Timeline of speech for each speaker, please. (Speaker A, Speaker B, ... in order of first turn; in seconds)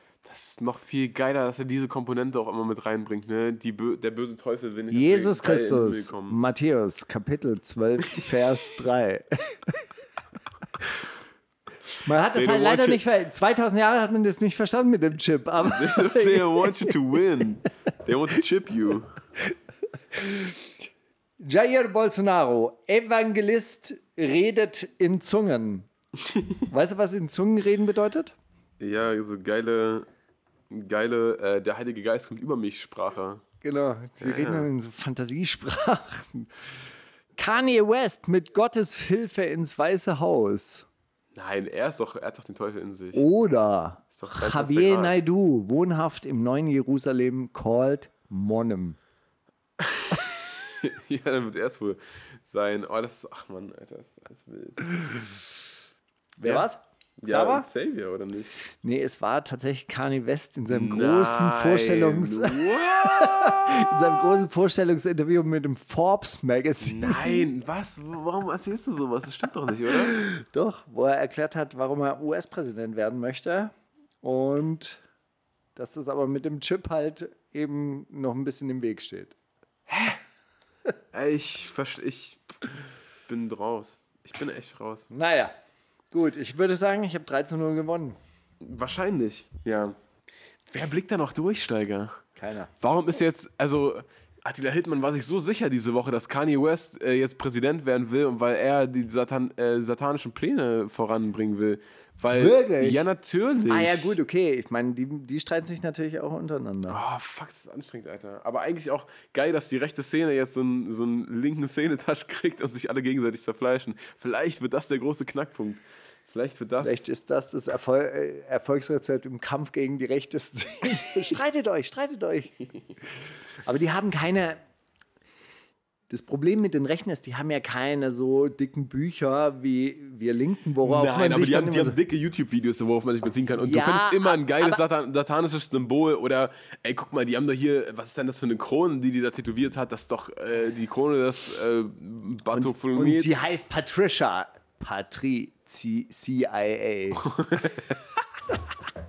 Speaker A: 0.2-6.4, 12.3-13.0, 15.6-19.1, 26.2-26.6, 28.8-30.1, 30.7-33.4, 34.2-34.7, 41.3-43.2, 44.1-45.2, 49.8-55.7, 57.2-58.6, 60.7-64.6, 66.8-70.2, 81.1-82.6, 83.3-85.1, 88.6-90.0, 90.7-92.2, 92.8-104.2, 106.9-117.0, 130.8-143.4, 147.2-147.9
Speaker B: 4.9-9.7, 12.0-16.9, 20.2-20.5, 21.4-25.9, 26.7-28.3, 33.6-36.5, 37.4-40.9, 43.1-49.0, 56.4-57.7, 58.8-67.5, 70.1-75.0, 75.8-79.3, 85.1-85.5, 86.1-88.2, 92.4-92.7, 102.3-103.0, 103.6-107.0, 116.8-122.6, 123.6-124.6, 126.1-132.0, 133.6-134.8, 142.5-147.2